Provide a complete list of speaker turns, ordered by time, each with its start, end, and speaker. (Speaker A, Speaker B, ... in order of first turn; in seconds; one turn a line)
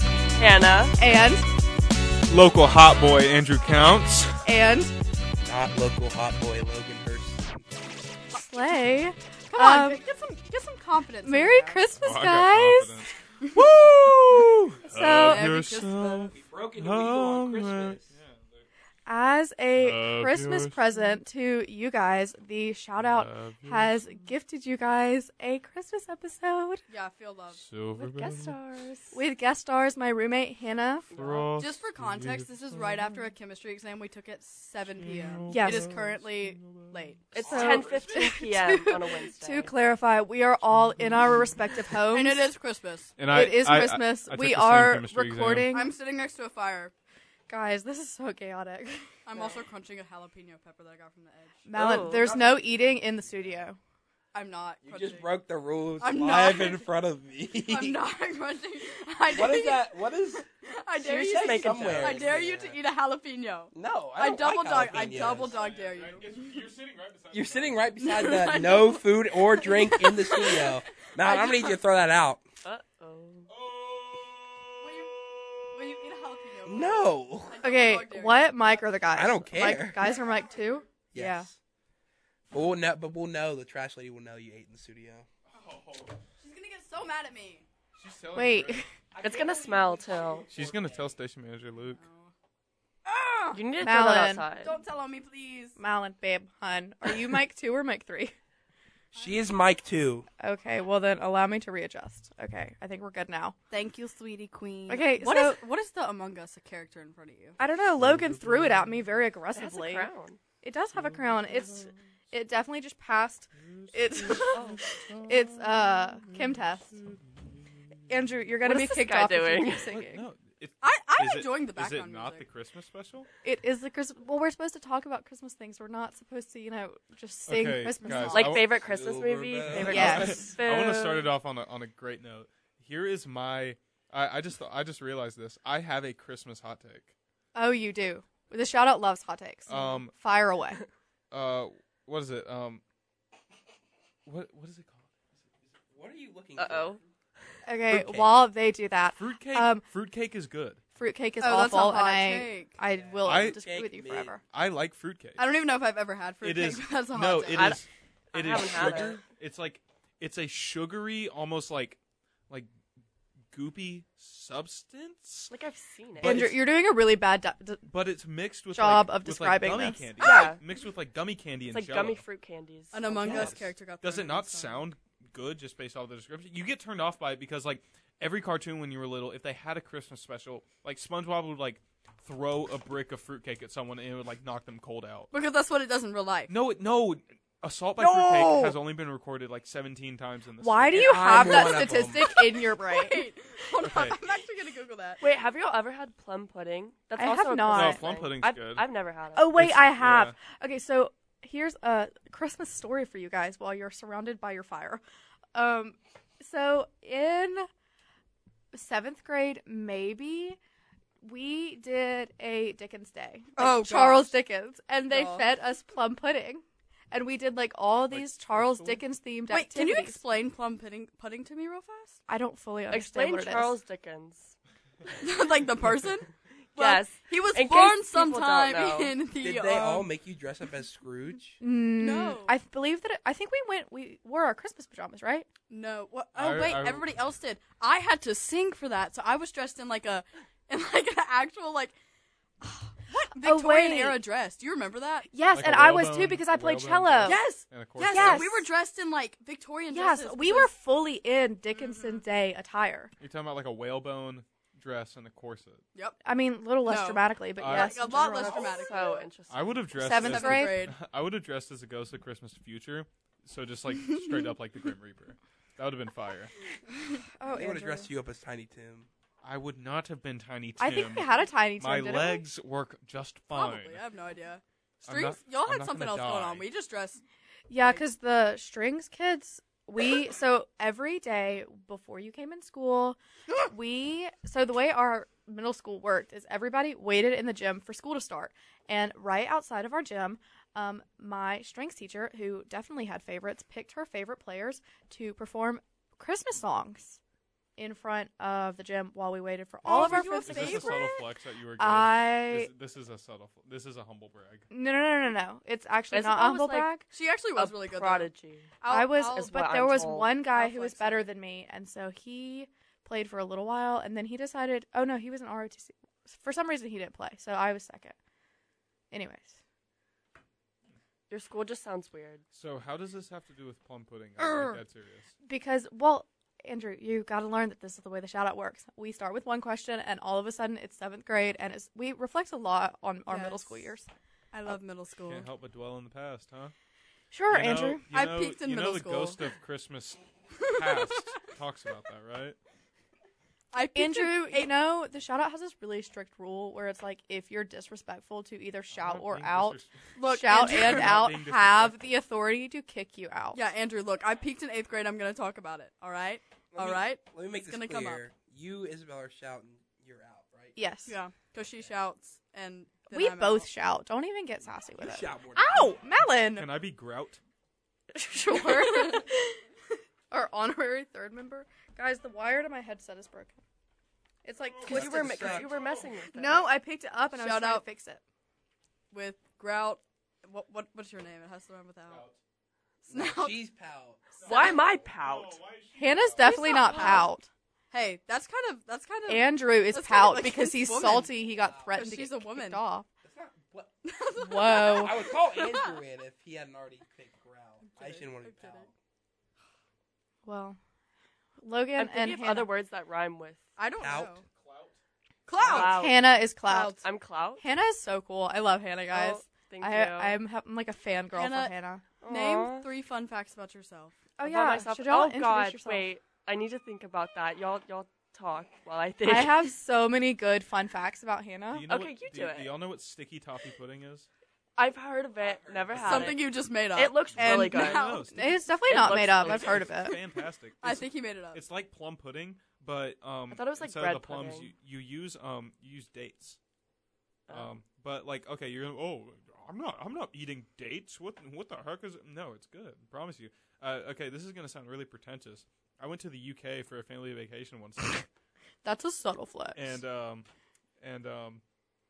Speaker A: 0.4-0.9
Speaker B: 1.0-1.5
Speaker C: 2.3-4.4
Speaker B: 4.5-4.9
Speaker D: 5.5-7.6
Speaker B: 8.3-10.0
Speaker E: 9.5-11.9
Speaker B: 11.2-13.0
Speaker C: 11.9-18.7
Speaker B: 14.8-15.5
Speaker E: 15.1-16.3
Speaker D: 16.3-18.1
Speaker B: 19.1-26.8
Speaker C: 19.8-20.8
Speaker C: 23.0-24.0
Speaker E: 26.9-27.6
Speaker C: 27.5-28.6
Speaker A: 28.0-29.2
Speaker B: 29.1-31.1
Speaker A: 31.1-31.6
Speaker C: 31.1-33.3
Speaker E: 31.6-37.2
Speaker C: 34.8-37.0
Speaker B: 35.5-35.9
Speaker A: 37.3-39.7
Speaker D: 37.3-38.2
Speaker B: 37.4-42.5
Speaker E: 42.1-43.2
Speaker C: 43.2-45.7
Speaker B: 43.3-45.9
Speaker E: 45.7-46.9
Speaker B: 47.5-49.1
Speaker E: 49.3-51.6
Speaker B: 51.7-53.8
Speaker A: 51.7-52.3
Speaker D: 51.8-53.6
Speaker E: 54.3-55.3
Speaker D: 54.8-58.0
Speaker E: 56.0-56.9
Speaker E: 57.6-66.4
Speaker D: 59.3-60.4
Speaker A: 61.0-62.3
Speaker D: 61.0-62.8
Speaker D: 63.7-65.6
Speaker C: 65.1-68.0
Speaker D: 67.3-72.4
Speaker E: 68.0-71.8
Speaker A: 72.6-73.5
Speaker C: 73.5-75.2
Speaker E: 74.8-78.9
Speaker D: 76.7-77.6
Speaker B: 77.6-81.5
Speaker D: 79.1-80.2
Speaker E: 80.1-80.6
Speaker D: 81.1-81.6
Speaker D: 82.5-85.3
Speaker C: 85.5-86.2
Speaker E: 86.4-87.7
Speaker C: 88.0-88.9
Speaker B: 88.3-88.9
Speaker D: 89.1-91.2
Speaker A: 89.2-90.5
Speaker C: 90.5-92.0
Speaker E: 91.8-92.3
Speaker E: 93.0-93.6
Speaker A: 93.5-94.8
Speaker B: 93.8-94.5
Speaker E: 94.6-95.8
Speaker B: 95.8-98.3
Speaker E: 99.1-99.5
Speaker D: 99.2-100.3
Speaker B: 100.4-103.6
Speaker E: 103.7-107.6
Speaker B: 104.9-105.6
Speaker B: 107.6-110.1
Speaker A: 109.5-110.4
Speaker B: 110.6-114.7
Speaker C: 110.9-112.0
Speaker C: 113.7-117.4
Speaker A: 114.5-114.9
Speaker B: 115.2-117.0
Speaker B: 118.1-120.3
Speaker A: 118.6-120.0
Speaker C: 119.9-123.3
Speaker E: 120.8-122.5
Speaker B: 123.4-128.6
Speaker C: 127.5-128.8
Speaker A: 128.1-131.3
Speaker D: 128.7-130.4
Speaker C: 129.6-137.1
Speaker B: 129.8-130.5
Speaker B: 137.6-140.8
Speaker C: 139.7-140.1
Speaker C: 141.3-142.8
Speaker C: 144.2-145.1
Speaker D: 145.9-147.0
Speaker A: 146.6-147.0
Speaker B: 147.7-149.8
Speaker D: 147.9-148.3
Speaker C: 149.1-150.8
Speaker B: 150.9-154.4
Speaker E: 151.4-152.7
Speaker D: 152.9-154.4
Speaker C: 153.2-153.6
Speaker C: 154.4-155.5
Speaker E: 155.4-157.8
Speaker C: 156.4-162.0
Speaker A: 157.5-159.2
Speaker C: 163.5-165.5
Speaker A: 165.5-166.4
Speaker C: 166.2-166.6
Speaker B: 166.2-167.8
Speaker C: 167.9-172.2
Speaker B: 168.7-170.1
Speaker A: 170.2-170.6
Speaker A: 171.7-173.5
Speaker E: 172.9-174.9
Speaker C: 173.2-185.3
Speaker E: 185.3-186.6
Speaker C: 186.5-192.1
Speaker E: 188.0-188.8
Speaker B: 190.6-193.3
Speaker D: 190.9-192.4
Speaker E: 192.8-195.2
Speaker C: 193.8-194.3
Speaker A: 195.2-199.5
Speaker B: 197.2-198.1
Speaker C: 197.7-198.8
Speaker B: 199.4-205.0
Speaker C: 199.5-200.4
Speaker B: 205.5-207.7
Speaker B: 208.7-210.6
Speaker B: 211.2-220.2
Speaker E: 213.6-214.4
Speaker E: 215.1-215.5
Speaker C: 218.1-219.0
Speaker E: 219.5-222.2
Speaker B: 222.3-223.8
Speaker A: 222.9-224.6
Speaker E: 225.2-230.1
Speaker A: 226.8-229.2
Speaker D: 229.4-231.6
Speaker B: 231.6-235.5
Speaker E: 232.0-232.6
Speaker E: 235.7-242.0
Speaker C: 236.3-237.1
Speaker E: 242.6-245.3
Speaker B: 243.3-244.2
Speaker B: 245.3-247.4
Speaker C: 245.5-248.6
Speaker E: 247.2-250.7
Speaker B: 248.0-248.6
Speaker B: 249.9-253.1
Speaker C: 253.2-255.8
Speaker B: 256.2-258.7
Speaker E: 256.8-259.3
Speaker C: 257.6-258.0
Speaker A: 258.0-259.9
Speaker C: 259.5-266.5
Speaker B: 259.9-260.9
Speaker E: 260.1-261.0
Speaker B: 267.4-268.1
Speaker D: 267.5-269.1
Speaker C: 269.4-274.0
Speaker B: 270.8-272.4
Speaker E: 273.5-277.2
Speaker C: 275.0-276.7
Speaker B: 277.7-297.2
Speaker B: 297.8-301.0
Speaker C: 299.9-304.7
Speaker E: 299.9-301.3
Speaker B: 301.8-302.7
Speaker B: 304.7-307.1
Speaker A: 306.1-306.9
Speaker E: 307.1-308.3
Speaker A: 307.6-308.7
Speaker E: 308.8-309.6
Speaker B: 308.9-318.2
Speaker A: 309.4-310.3
Speaker E: 310.5-311.3
Speaker B: 319.1-319.6
Speaker A: 321.3-322.4
Speaker C: 322.5-325.3
Speaker B: 324.4-324.8
Speaker B: 325.4-334.1
Speaker E: 333.3-333.9
Speaker E: 334.5-335.5
Speaker C: 335.2-336.7
Speaker B: 337.3-338.1
Speaker C: 337.5-342.6
Speaker E: 338.1-339.5
Speaker E: 340.6-341.2
Speaker E: 343.7-344.8
Speaker B: 343.9-349.8
Speaker C: 348.9-352.0
Speaker E: 350.2-351.2
Speaker B: 350.3-353.6
Speaker E: 353.5-358.3
Speaker D: 356.7-360.8
Speaker B: 360.8-361.2
Speaker E: 361.1-363.7
Speaker B: 363.1-366.7
Speaker D: 365.0-365.9
Speaker C: 366.4-367.4
Speaker B: 368.1-369.6
Speaker E: 368.5-369.2
Speaker B: 370.3-373.6
Speaker B: 374.4-375.6
Speaker C: 374.6-376.0
Speaker D: 374.9-375.8
Speaker A: 374.9-376.7
Speaker B: 376.3-378.2
Speaker E: 377.4-377.9
Speaker E: 379.1-382.2
Speaker C: 382.1-382.4
Speaker E: 383.1-383.6
Speaker D: 383.1-385.1
Speaker C: 384.4-386.6
Speaker A: 384.5-385.6
Speaker B: 386.0-387.5
Speaker E: 386.4-387.4
Speaker A: 386.4-387.3
Speaker E: 387.9-391.3
Speaker B: 389.3-393.1
Speaker D: 391.3-392.1
Speaker E: 391.9-392.9
Speaker D: 393.2-393.9
Speaker E: 394.1-396.0
Speaker B: 394.4-395.2
Speaker D: 394.9-399.0
Speaker E: 397.9-398.9
Speaker B: 400.5-400.8
Speaker B: 401.6-402.7
Speaker A: 401.9-403.7
Speaker E: 403.8-404.4
Speaker D: 404.0-404.4
Speaker C: 404.5-405.0
Speaker E: 405.5-407.1
Speaker A: 405.6-406.2
Speaker D: 405.6-406.0
Speaker B: 405.8-407.0
Speaker A: 407.0-407.6
Speaker B: 407.6-412.0
Speaker A: 409.1-410.4
Speaker E: 411.3-414.1
Speaker A: 412.2-412.9
Speaker B: 414.4-416.1
Speaker A: 414.4-419.7
Speaker B: 419.2-421.9
Speaker C: 421.7-424.3
Speaker A: 421.9-422.8
Speaker A: 424.8-428.1
Speaker D: 425.4-426.4
Speaker E: 425.9-429.2
Speaker C: 427.3-436.6
Speaker B: 427.8-430.2
Speaker A: 428.9-429.9
Speaker E: 430.8-431.6
Speaker A: 433.5-434.7
Speaker C: 437.5-448.2
Speaker B: 448.8-450.0
Speaker C: 449.7-450.5
Speaker C: 451.0-451.6